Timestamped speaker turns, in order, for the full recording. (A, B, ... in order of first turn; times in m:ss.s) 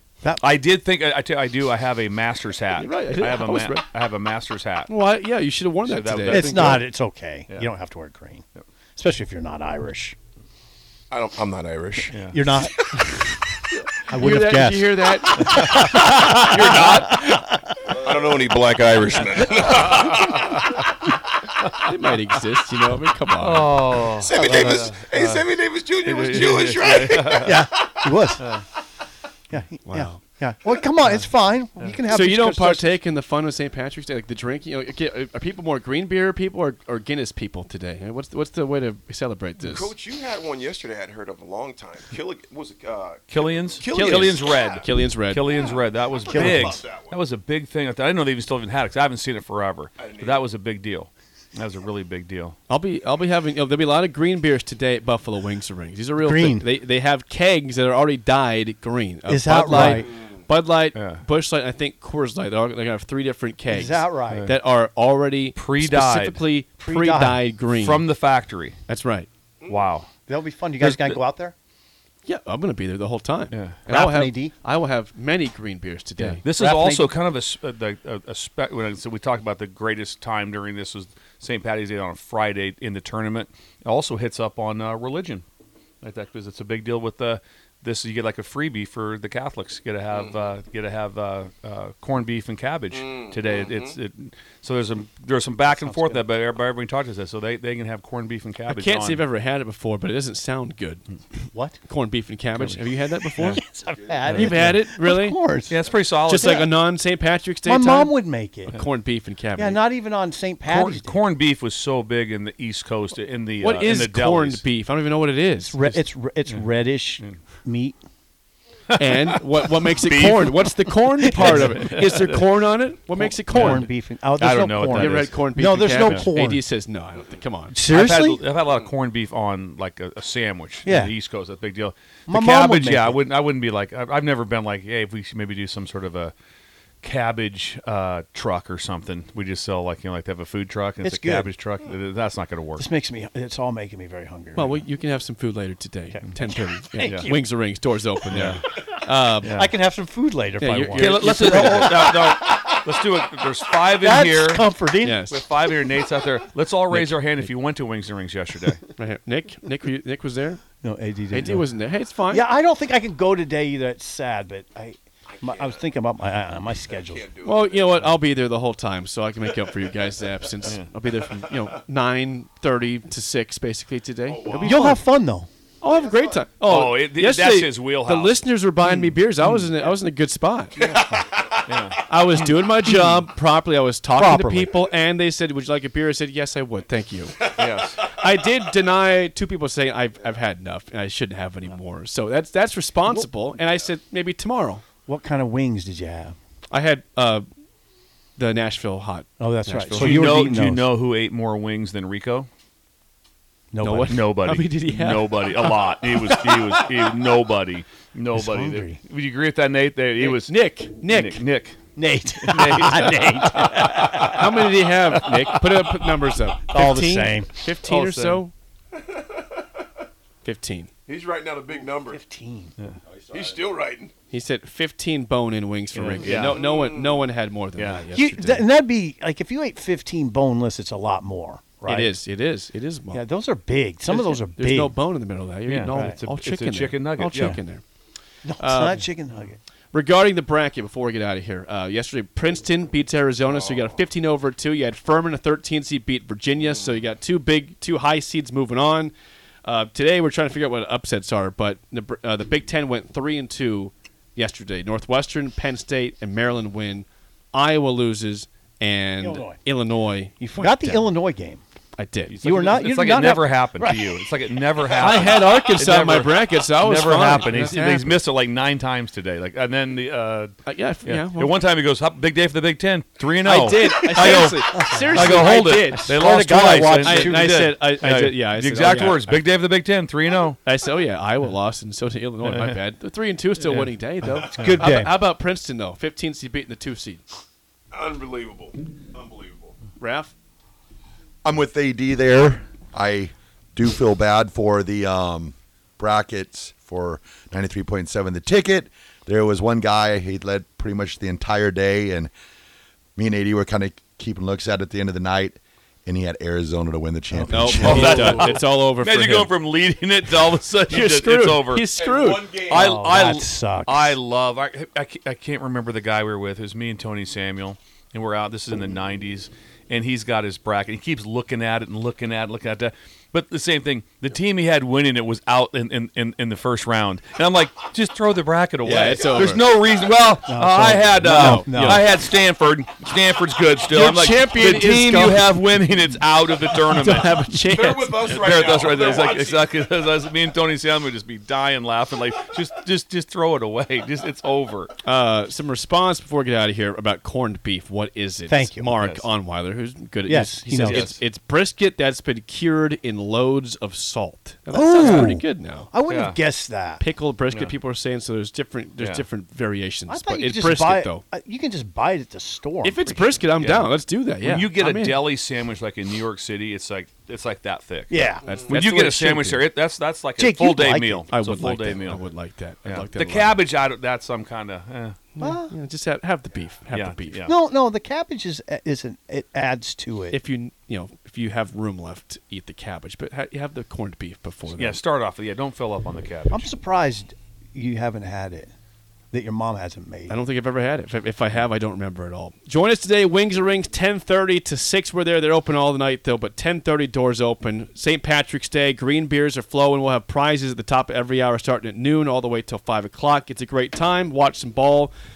0:00.2-0:00.5 A
0:00.4-0:04.9 B
0:02.7-0:03.8 C
0:04.9-0:06.8 C
0:05.8-0:06.8 B
0:06.3-0:08.4 A
0:09.0-0:10.2 A
0:11.1-0:13.0 D
0:12.1-0:12.4 B
0:12.3-0:13.2 A
0:14.1-0:17.6 A
0:14.1-0:16.0 C
0:15.4-0:17.4 B
0:17.9-0:20.4 D
0:19.7-0:20.4 B
0:21.8-0:23.7 C
0:23.4-0:25.4 B
0:24.1-0:27.6 D
0:24.4-0:24.9 A
0:26.0-0:27.7 B
0:27.4-0:28.5 A
0:28.4-0:28.6 B
0:29.5-0:32.9 A
0:29.9-0:30.2 C
0:32.1-0:39.9 C
0:39.6-0:44.9 D
0:43.3-0:52.6 B
0:43.9-0:45.5 C
0:45.5-0:47.1 D
0:46.2-0:46.8 A
0:50.0-0:50.5 D
0:52.7-1:08.1 C
0:56.2-0:56.7 A
0:59.3-1:00.1 A
1:00.9-1:01.2 B
1:03.7-1:04.5 A
1:04.3-1:04.5 B
1:05.5-1:06.4 B
1:06.8-1:07.4 A
1:07.7-1:08.8 B
1:08.9-1:09.3 C
1:09.6-1:10.1 B
1:10.3-1:11.5 A
1:10.8-1:11.2 B
1:12.2-1:16.4 C
1:13.5-1:13.8 B
1:13.8-1:14.5 A
1:16.2-1:17.2 A
1:16.4-1:25.4 B
1:26.0-1:39.2 B
1:32.9-1:34.0 D
1:35.7-1:36.2 A
1:38.7-1:41.0 C
1:41.5-1:41.8 A
1:41.8-1:43.6 C
1:42.5-1:42.8 B
1:43.5-1:46.7 A
1:44.2-1:44.6 B
1:44.3-1:45.4 C
1:45.7-1:46.6 B
1:46.2-1:49.8 C
1:47.6-1:48.8 A
1:49.6-1:51.2 A
1:50.7-1:54.6 B
1:53.6-1:55.8 C
1:55.6-1:58.0 A
1:55.8-1:56.6 B
1:59.0-2:03.9 C
1:59.1-2:02.4 B
2:01.2-2:02.0 A
2:03.2-2:06.6 A
2:03.5-2:05.4 B
2:04.9-2:07.8 C
2:06.0-2:06.3 B
2:07.7-2:08.4 A
2:07.9-2:16.3 B
2:10.8-2:11.1 A
2:12.3-2:13.2 A
2:17.0-2:22.8 B
2:21.0-2:21.5 A
2:22.8-2:24.8 A
2:24.5-2:29.6 C
2:26.1-2:27.4 A
2:27.0-2:27.3 B
2:28.3-2:28.6 B
2:29.4-2:29.7 B
2:29.5-2:32.8 A
2:30.6-2:32.0 C
2:30.9-2:34.7 B
2:34.0-2:35.2 A
2:35.0-2:35.3 C
2:35.3-2:38.8 B
2:36.9-2:37.4 C
2:39.0-2:40.6 C
2:40.8-2:41.6 A
2:41.3-2:42.4 C
2:42.3-2:47.3 A
2:45.3-2:45.9 D
2:46.9-2:47.9 D
2:47.4-2:55.0 C
2:54.3-2:54.9 D
2:54.6-2:55.5 A
2:55.8-3:00.8 C
2:56.6-2:58.4 B
3:01.6-3:02.5 B
3:02.0-3:07.5 C
3:04.1-3:04.7 A
3:07.5-3:08.0 B
3:08.0-3:14.8 C
3:15.1-3:16.4 A
3:16.7-3:17.4 C
3:18.4-3:20.3 C
3:19.4-3:20.8 A
3:19.9-3:22.5 B
3:23.7-3:24.3 A
3:23.8-3:25.7 C
3:24.1-3:31.8 B
3:28.3-3:29.0 A
3:30.2-3:31.4 C
3:32.0-3:34.7 A
3:32.4-3:34.3 B
3:34.1-3:38.5 C
3:36.7-3:37.6 A
3:37.8-3:38.4 B
3:39.0-3:39.6 D
3:40.4-3:40.9 C
3:41.1-3:42.2 D
3:42.1-3:42.7 A
3:43.3-3:44.1 D
3:44.3-3:48.6 C
3:45.9-3:46.6 B
3:46.2-3:47.2 D
3:47.8-3:48.0 B
3:48.1-3:52.2 A
3:51.8-3:53.2 C
3:53.1-3:55.0 A
3:54.1-3:57.8 C
3:55.7-3:57.6 B
3:55.9-3:56.2 A
3:57.3-3:57.6 A
3:58.4-3:59.6 A
3:58.6-3:59.0 C
3:59.9-4:09.1 C
4:09.6-4:21.1 C
4:19.2-4:19.6 A
4:20.4-4:21.6 A
4:22.0-4:22.5 C
4:22.3-4:40.6 B
4:22.4-4:24.0 A
4:25.0-4:28.2 C
4:30.6-4:31.5 C
4:33.4-4:36.2 C
4:33.9-4:37.4 A
4:36.9-4:39.4 C
4:40.6-4:47.2 C
4:42.4-4:42.7 B
4:43.6-4:43.9 B
4:44.6-4:45.1 A
4:47.9-4:49.7 D
4:50.0-4:50.3 C
4:51.4-5:02.3 E
5:03.2-5:08.1 E
5:07.3-5:08.5 A
5:07.5-5:09.6 C
5:07.8-5:37.4 B
5:10.9-5:12.6 C
5:12.0-5:12.9 D
5:12.7-5:14.2 A
5:28.8-5:29.6 C
5:30.4-5:32.1 A
5:31.2-5:32.0 C
5:33.9-5:35.6 C
5:36.9-5:38.4 C
5:37.7-5:39.8 D
5:38.2-5:44.9 B
5:45.0-5:55.9 C
5:48.5-5:48.9 A
5:49.0-5:49.3 B
5:50.3-5:51.2 A
5:50.8-5:51.1 B
5:54.7-5:57.0 A
5:56.0-5:56.4 B
5:57.0-6:01.2 C
5:59.0-5:59.2 B
6:00.1-6:03.4 A
6:02.8-6:05.2 C
6:03.6-6:03.9 B
6:04.4-6:12.2 B
6:08.1-6:08.6 A
6:08.4-6:09.6 C
6:10.4-6:11.3 A
6:11.3-6:13.6 C
6:12.8-6:15.2 B
6:15.4-6:17.4 C
6:15.4-6:15.7 A
6:16.9-6:17.5 B
6:17.4-6:20.4 A
6:20.3-6:25.0 C
6:24.7-6:26.7 B
6:26.5-6:28.7 A
6:29.3-6:30.4 A
6:30.3-6:45.1 C